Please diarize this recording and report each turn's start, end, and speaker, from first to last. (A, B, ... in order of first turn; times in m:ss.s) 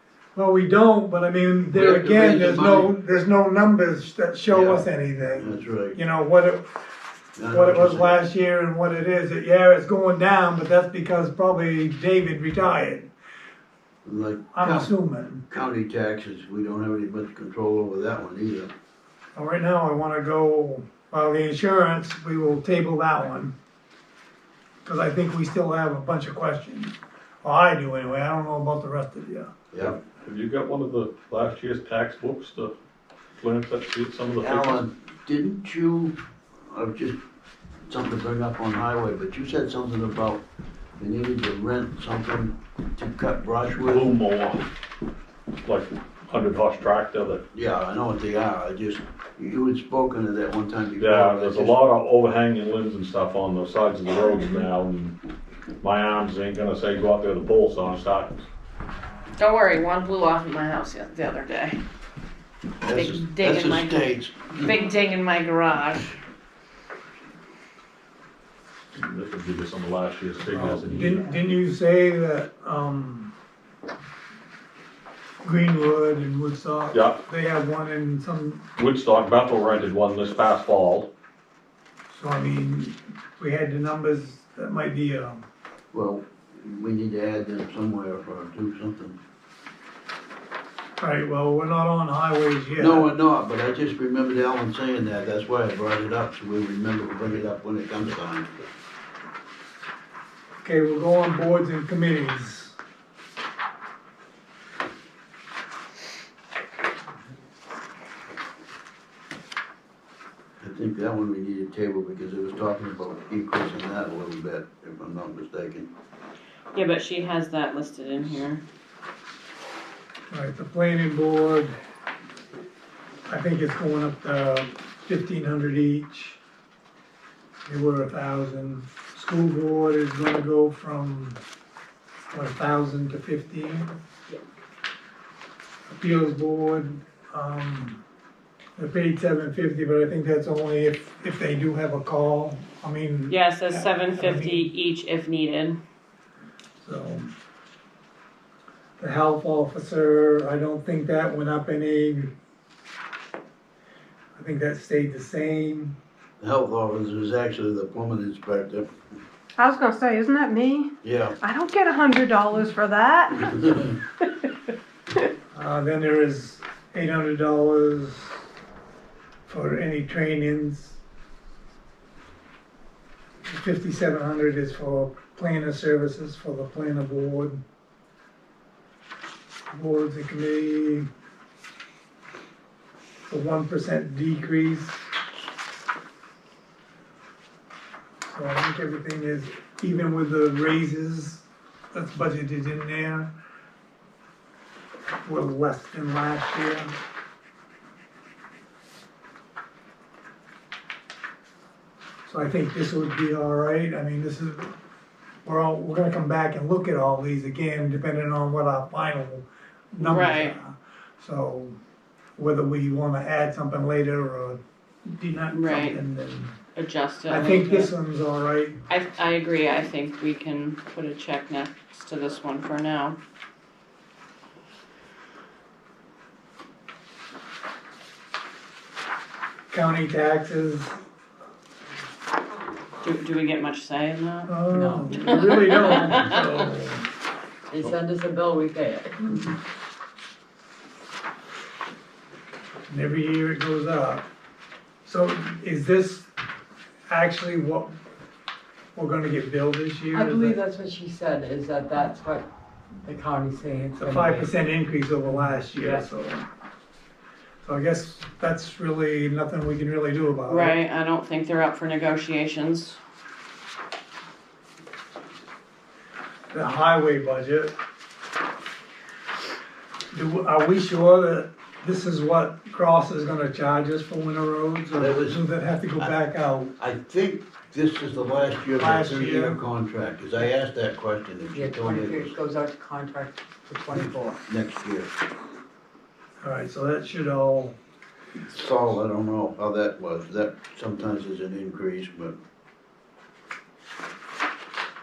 0:00.4-0:06.7 A
0:01.7-0:02.9 B
0:04.5-0:06.0 B
0:07.4-0:08.2 B
0:07.5-0:13.1 A
0:14.0-0:14.9 B
0:14.5-0:15.4 A
0:15.5-0:18.7 B
0:19.4-0:23.5 A
0:24.8-0:29.5 A
0:29.8-0:32.8 C
0:33.4-0:34.8 C
0:34.4-0:36.2 B
0:36.7-0:37.2 B
0:37.9-0:40.4 B
0:41.0-0:44.1 B
0:43.8-0:44.6 C
0:45.6-0:47.4 C
0:47.5-0:51.8 B
0:51.0-0:55.2 C
0:55.8-0:58.5 C
0:59.4-1:01.8 D
1:02.8-1:04.8 B
1:02.9-1:06.2 D
1:08.9-1:11.3 C
1:10.5-1:13.3 A
1:15.4-1:18.7 A
1:16.9-1:17.2 C
1:18.8-1:21.1 C
1:22.1-1:25.4 A
1:25.9-1:29.2 B
1:31.0-1:33.1 A
1:32.8-1:38.5 B
1:40.6-1:42.8 A
1:50.6-1:55.9 B
1:56.7-1:58.6 D
2:00.3-2:01.7 A
2:03.3-2:06.4 A
2:07.7-2:11.4 A
2:12.3-2:13.9 A
2:15.9-2:18.0 A
2:18.8-2:24.7 A
2:23.3-2:25.8 D
2:26.8-2:27.3 A
2:29.0-2:32.3 A
2:34.4-2:36.0 A
2:36.4-2:38.9 B
2:39.6-2:40.9 E
2:41.0-2:41.4 B
2:41.4-2:43.5 E
2:45.5-2:48.4 A
2:49.5-2:51.0 A
2:53.5-2:57.6 A
2:59.7-3:01.1 A
3:03.3-3:05.1 A
3:08.2-3:13.3 A
3:15.2-3:16.9 A
3:22.3-3:24.7 A
3:25.4-3:31.8 A
3:30.0-3:30.6 D
3:32.4-3:36.6 A
3:35.5-3:36.0 D
3:36.8-3:37.9 D
3:37.3-3:38.8 A
3:38.9-3:43.2 D
3:49.7-3:51.0 A
3:53.0-3:54.5 D
3:54.5-3:57.1 A
3:54.7-3:56.1 F
3:55.4-3:56.6 D
3:57.7-3:59.5 F
4:02.9-4:04.2 A
4:05.0-4:06.3 A
4:07.1-4:07.9 A
4:09.0-4:10.6 A
4:10.1-4:12.5 F
4:13.0-4:14.5 F
4:14.0-4:16.5 A
4:15.8-4:16.0 F
4:17.6-4:20.8 A
4:20.5-4:23.0 D
4:26.5-4:27.7 A
4:30.1-4:36.7 A
4:35.0-4:35.4 B
4:36.8-4:42.4 B
4:38.8-4:39.6 A
4:41.5-4:44.4 F
4:44.5-4:45.1 B
4:46.4-4:47.8 A
4:48.4-4:52.4 B